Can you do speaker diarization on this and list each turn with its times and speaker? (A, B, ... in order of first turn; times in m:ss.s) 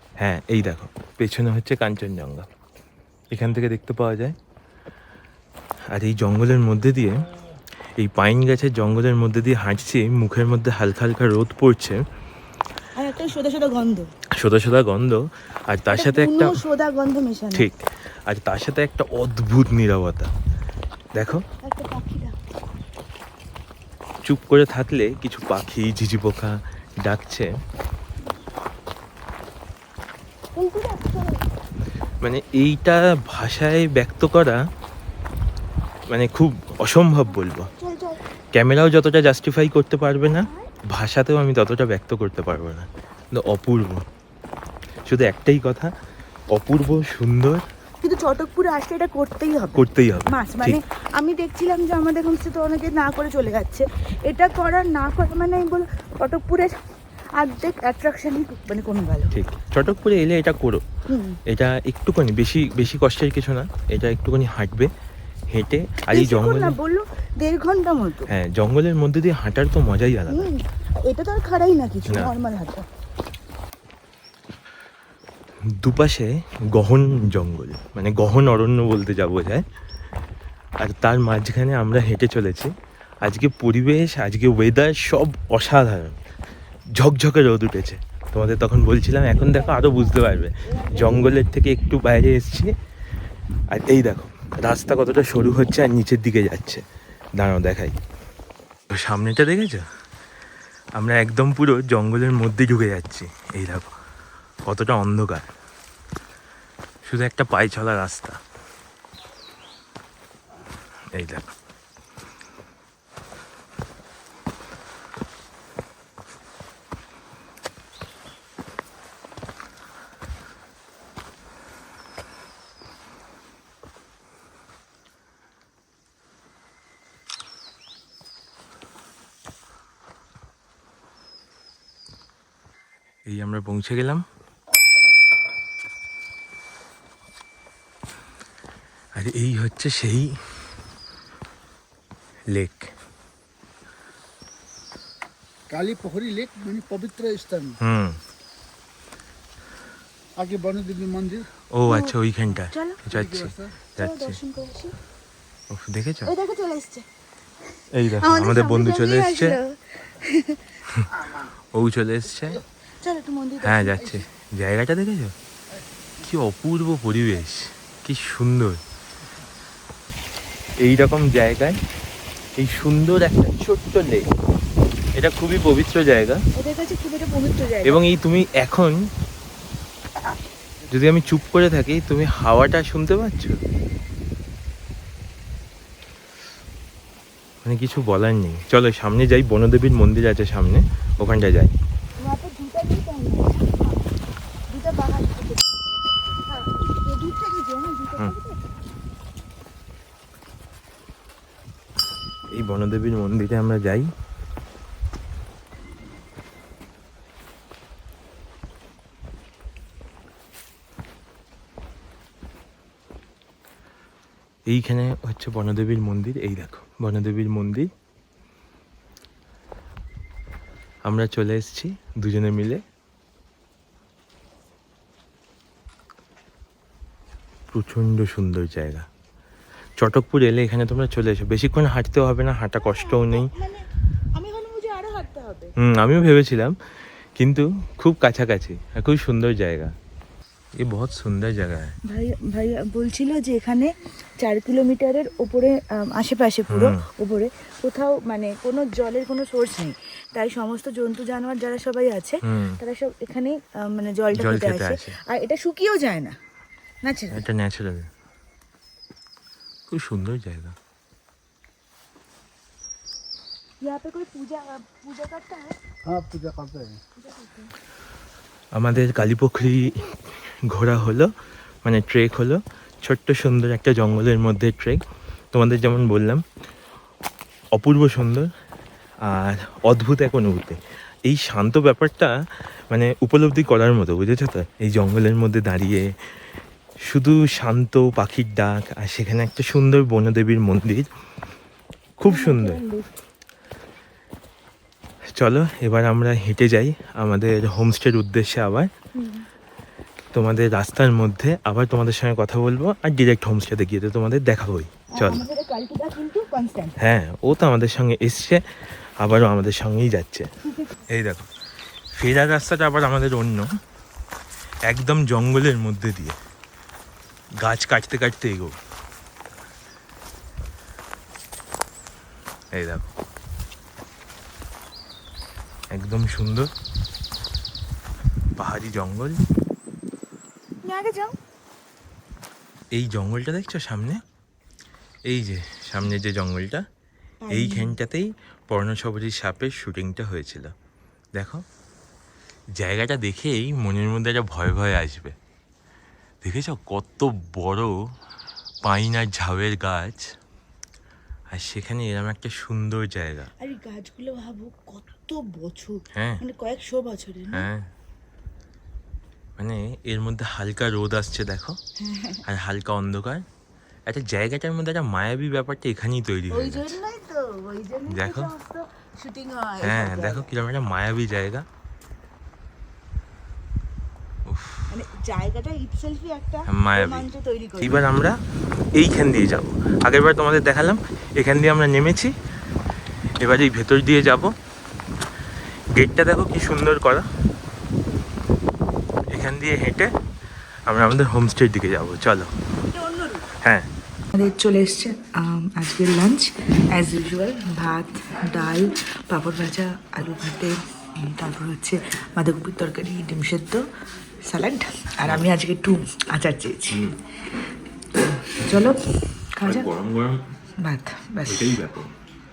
0:00.2-0:02.5 A
0:03.3-0:04.4 A
0:05.9-0:07.2 A
0:08.0-0:12.0 A
0:13.0-0:14.1 B
0:14.3-0:16.6 A
0:15.9-0:17.7 B
0:17.5-0:20.3 A
0:21.1-0:21.4 A
0:21.2-0:22.3 B
0:24.2-0:27.5 A
0:30.6-0:31.4 B
0:32.2-0:34.6 A
0:36.1-0:37.7 A
0:37.5-0:38.2 B
0:38.5-0:44.0 A
0:40.3-0:40.7 B
0:45.0-0:45.9 A
0:46.5-0:47.6 A
0:48.0-0:56.8 B
0:49.7-0:50.8 A
0:57.4-0:59.3 B
0:59.3-1:00.8 A
1:01.1-1:01.4 B
1:01.5-1:04.9 A
1:05.5-1:06.8 A
1:06.1-1:08.3 B
1:08.3-1:10.5 A
1:10.3-1:12.8 B
1:12.1-1:12.3 A
1:15.6-1:19.6 A
1:20.8-1:26.2 A
1:26.9-1:32.8 A
1:29.4-1:31.3 B
1:33.7-1:36.8 A
1:37.4-1:38.0 A
1:38.9-1:39.9 A
1:40.9-1:43.9 A
1:44.6-1:45.5 A
1:47.0-1:48.4 A
1:51.1-1:51.5 A
2:13.3-2:14.2 A
2:19.1-2:20.4 A
2:22.5-2:22.9 A
2:25.7-2:27.8 C
2:27.8-2:28.2 A
2:30.4-2:31.4 C
2:31.7-2:34.4 A
2:31.8-2:32.1 B
2:32.7-2:33.0 B
2:33.1-2:33.8 C
2:34.0-2:34.9 B
2:35.7-2:36.3 A
2:36.2-2:37.0 B
2:37.9-2:39.6 A
2:38.2-2:40.8 B
2:41.7-2:42.6 A
2:43.0-2:44.2 B
2:43.6-2:45.3 A
2:46.2-2:48.8 A
2:50.8-2:51.8 A
2:52.6-2:54.3 A
2:55.1-2:56.4 A
2:56.5-2:58.0 B
2:57.8-2:59.0 A
3:00.9-3:03.6 A
3:07.6-3:11.7 A
3:12.2-3:13.8 B
3:14.7-3:15.8 B
3:16.4-3:18.6 B
3:22.5-3:24.1 A
3:34.7-3:37.9 A
3:41.0-3:42.8 A
3:47.7-3:49.1 A
3:50.0-3:53.5 A
3:52.8-3:53.8 B
3:54.4-3:55.7 B
3:55.8-3:56.7 A
3:57.4-3:59.9 A
4:00.8-4:02.0 A
4:02.0-4:16.4 B
4:06.7-4:07.0 A
4:12.4-4:12.8 A
4:14.3-4:15.2 A
4:17.0-4:17.4 B
4:17.3-4:18.1 A
4:19.9-4:20.8 A
4:23.8-4:25.8 B
4:26.0-4:27.0 C
4:27.2-4:27.7 B
4:28.7-4:31.3 A
4:31.8-4:36.4 A
4:37.7-4:38.5 A
4:39.2-4:42.3 A
4:42.9-4:46.2 A
4:47.0-4:51.1 A
4:52.2-4:52.8 A
4:52.2-4:53.1 B
4:55.4-4:58.9 A
4:59.2-4:59.4 B
5:00.3-5:05.4 A
5:05.1-5:07.0 B
5:07.0-5:10.5 A
5:11.1-5:11.5 A
5:12.1-5:13.7 A
5:14.9-5:16.4 A
5:17.6-5:18.8 A
5:22.7-5:23.1 A
5:25.9-5:26.7 A
5:28.6-5:29.4 A
5:30.8-5:31.4 B
5:32.9-5:34.2 A
5:35.2-5:36.9 A
5:37.4-5:38.0 B
5:37.5-5:40.7 A
5:41.3-5:41.6 A
5:42.8-5:45.4 A
5:46.4-5:48.2 A
5:48.8-5:50.4 A
5:51.5-5:53.5 A
5:53.6-5:57.7 B
5:56.1-5:56.4 A
5:57.5-5:57.9 A
5:59.6-6:01.8 A
6:02.0-6:02.4 B
6:02.4-6:03.4 A
6:04.0-6:07.0 A
6:06.5-6:10.5 B
6:08.1-6:08.5 A
6:09.8-6:11.6 A
6:14.4-6:14.9 A
6:14.9-6:18.0 B
6:16.7-6:17.3 A
6:17.8-6:18.4 A
6:18.9-6:22.3 A
6:23.4-6:24.5 A
6:25.9-6:27.2 A
6:29.3-6:30.1 A
6:30.9-6:32.5 A
6:32.9-6:33.4 B
6:33.6-6:33.9 A
6:34.3-6:43.8 B
6:44.5-6:47.1 B
6:46.9-6:47.2 A
6:48.4-6:49.0 A
6:48.6-6:49.0 B
6:49.6-6:49.9 B
6:49.6-6:50.4 A
6:50.8-6:51.8 B
6:51.4-6:52.1 A